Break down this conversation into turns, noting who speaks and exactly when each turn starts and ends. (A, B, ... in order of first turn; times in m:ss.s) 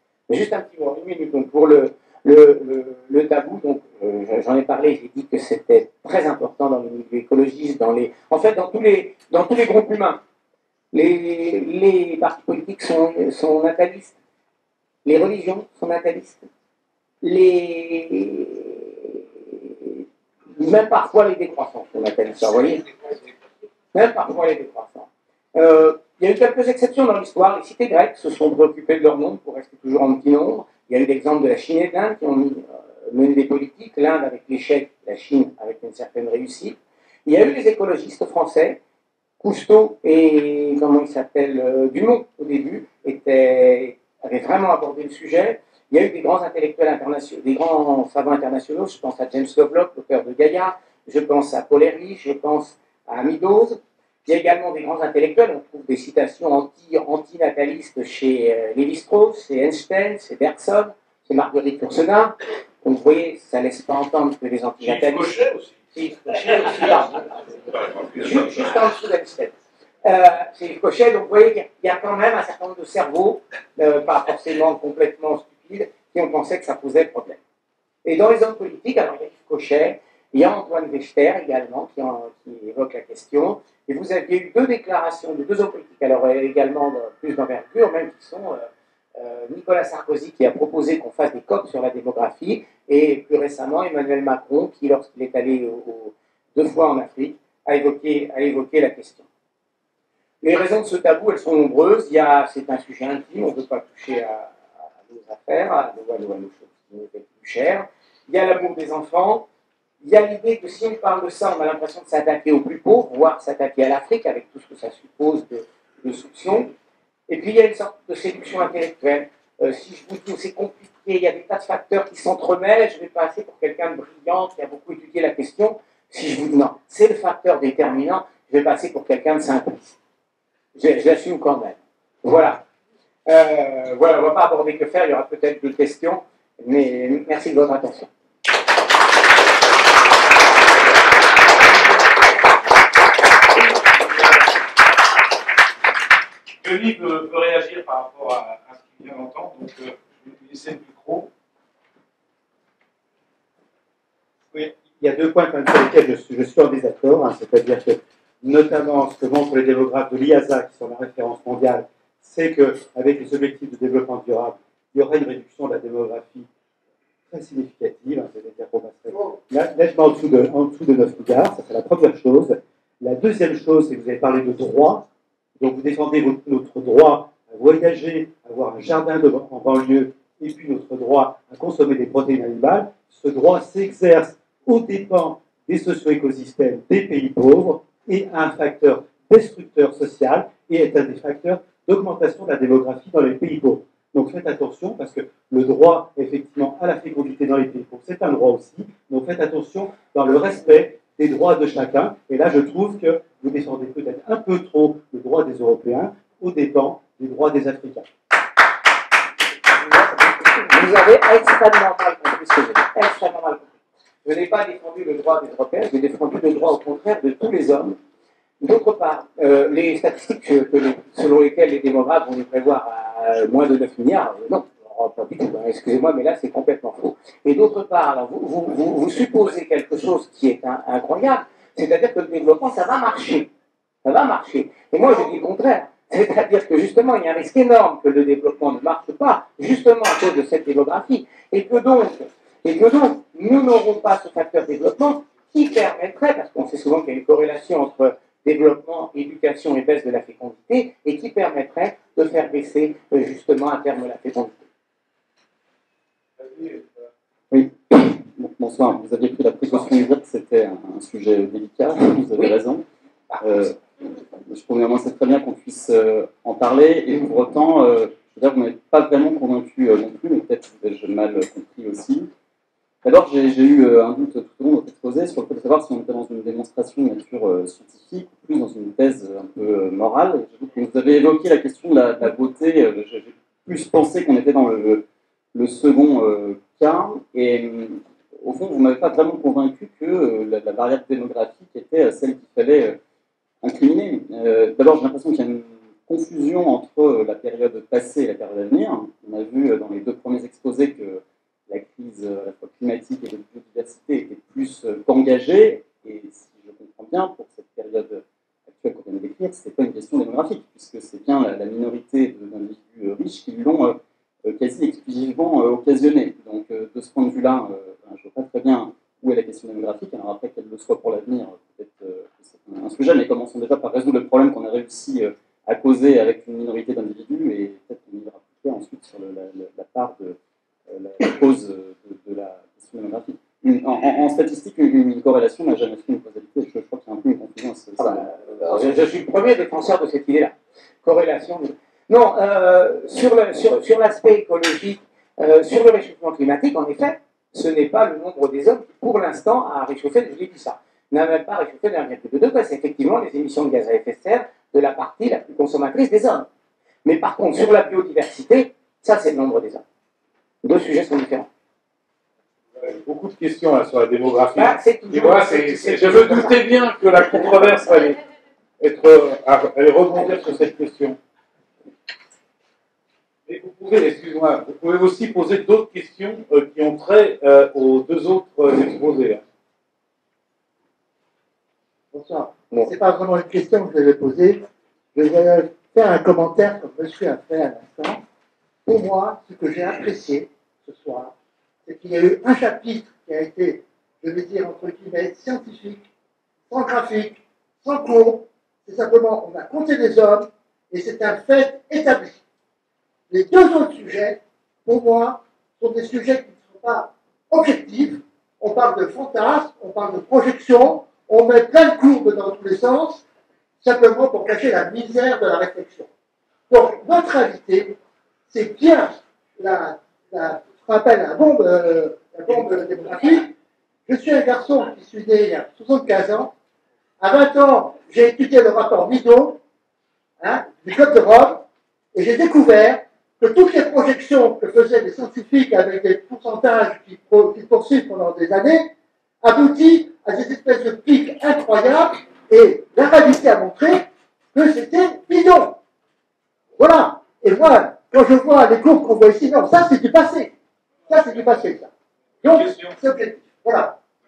0:00.3-0:10.2 A
0:10.9-0:14.1 A
0:15.0-0:16.5 A
0:17.2-0:22.9 A
0:23.9-0:38.8 A
0:39.4-1:07.4 A
1:04.8-1:05.8 B
1:08.1-1:17.4 A
1:18.0-1:39.3 A
1:40.4-1:49.4 A
1:50.0-1:56.7 A
1:57.3-2:10.0 A
2:10.8-2:12.6 A
2:13.3-2:18.1 A
2:26.6-2:31.3 B
2:34.5-2:46.5 C
2:47.3-2:55.0 C
2:55.6-3:28.1 C
3:30.2-3:33.7 A
3:34.2-3:38.0 A
3:38.6-3:53.5 A
3:54.0-4:14.6 A
4:16.4-4:17.0 B
4:17.5-4:22.8 D
4:23.3-4:23.7 A
4:23.4-4:23.8 D
4:24.5-4:32.3 D
4:33.0-4:53.0 D
4:53.6-5:30.4 D
5:30.9-5:38.9 D
5:38.0-5:56.5 A
5:57.0-5:59.8 A
6:00.6-6:01.5 A
6:02.8-6:08.2 B
6:04.5-6:06.6 A
6:08.8-6:11.2 B
6:13.5-6:19.4 B
6:22.1-6:24.6 E
6:25.2-6:28.2 E
6:28.9-6:31.3 E
6:31.8-6:36.0 E
6:36.7-6:42.4 E
6:43.3-6:53.2 E
6:53.8-6:56.1 E
6:56.7-6:58.0 E
6:58.5-7:03.5 E
7:04.1-7:06.5 E
7:07.2-7:09.6 E
7:10.4-7:11.6 E
7:12.1-7:18.9 E
7:19.4-7:25.8 E
7:26.8-7:30.5 E
7:31.1-7:31.9 E
7:32.4-7:33.0 B
7:32.4-7:34.0 E